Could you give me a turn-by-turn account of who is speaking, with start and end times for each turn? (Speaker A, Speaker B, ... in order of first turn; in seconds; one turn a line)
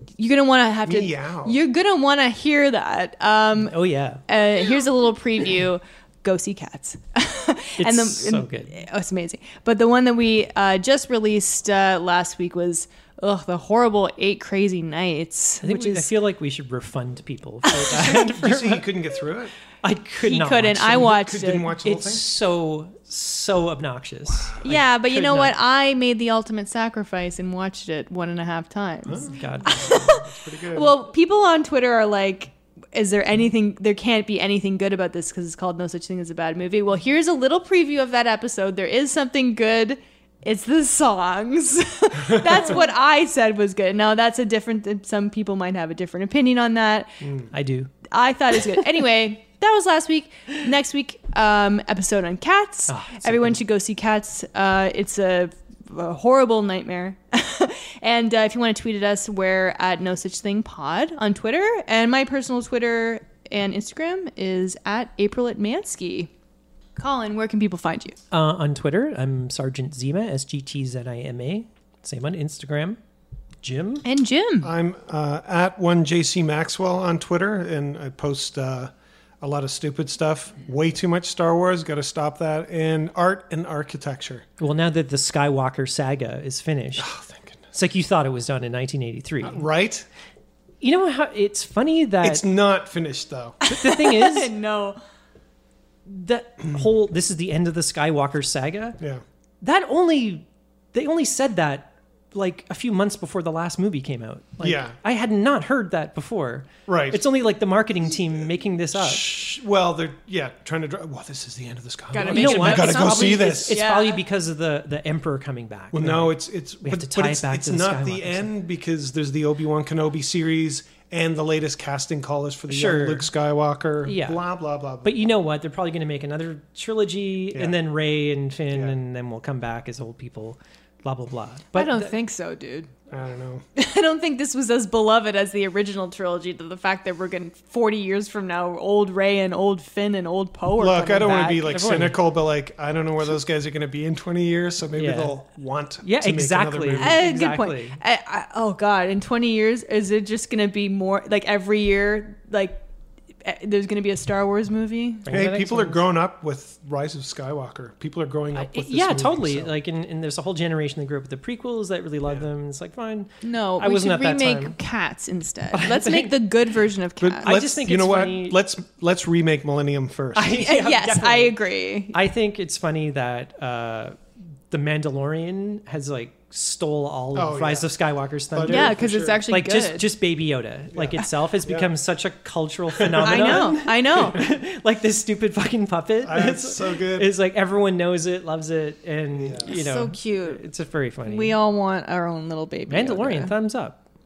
Speaker A: 0.2-3.8
Speaker B: 0.8-1.6
Speaker C: 3.6-4.2
Speaker A: 4.3-16.1
Speaker C: 7.8-8.7
Speaker C: 15.6-18.9
Speaker A: 17.6-18.1
Speaker B: 17.8-19.5
Speaker C: 19.8-25.6
Speaker A: 20.2-21.7
Speaker B: 20.9-22.2
Speaker B: 24.2-24.6
Speaker A: 24.6-47.4
Speaker B: 29.1-30.9
Speaker C: 29.2-30.1
Speaker C: 47.5-47.9
Speaker A: 48.1-66.3
Speaker C: 52.9-53.6
Speaker A: 67.0-68.2
Speaker C: 68.3-73.0
Speaker C: 73.6-74.0
Speaker A: 74.0-74.7
Speaker B: 74.6-84.5
Speaker C: 84.6-87.1
Speaker B: 87.0-87.6
Speaker C: 87.7-89.6
Speaker B: 89.4-90.1
Speaker C: 90.8-92.4
Speaker B: 92.2-93.6
Speaker A: 93.6-95.0
Speaker C: 93.6-94.5
Speaker C: 96.0-99.0
Speaker C: 99.6-109.3
Speaker B: 104.6-105.0
Speaker B: 106.8-107.2
Speaker B: 108.9-113.8
Speaker A: 112.1-114.2
Speaker C: 112.2-118.5
Speaker B: 115.9-125.1
Speaker C: 122.7-123.3
Speaker C: 124.0-124.4
Speaker C: 125.0-132.1
Speaker A: 131.7-132.9
Speaker B: 133.1-133.6
Speaker A: 133.8-141.7
Speaker B: 140.8-147.2
Speaker C: 141.2-142.2
Speaker C: 144.9-145.3
Speaker C: 146.0-148.0
Speaker A: 147.0-152.8
Speaker A: 153.4-155.3
Speaker C: 155.2-156.0
Speaker B: 155.3-159.7
Speaker C: 158.5-164.8
Speaker A: 163.4-167.6
Speaker C: 165.7-166.5
Speaker B: 167.2-170.6
Speaker C: 167.4-168.6
Speaker C: 170.3-171.6
Speaker A: 170.5-172.2
Speaker C: 172.1-174.2
Speaker C: 174.7-191.6
Speaker B: 177.3-177.9
Speaker B: 178.5-179.5
Speaker A: 178.6-180.1
Speaker B: 180.9-181.9
Speaker B: 182.9-183.7
Speaker A: 183.2-184.4
Speaker B: 186.2-187.3
Speaker B: 189.3-189.7
Speaker A: 189.6-190.6
Speaker A: 191.2-193.5
Speaker C: 192.9-194.0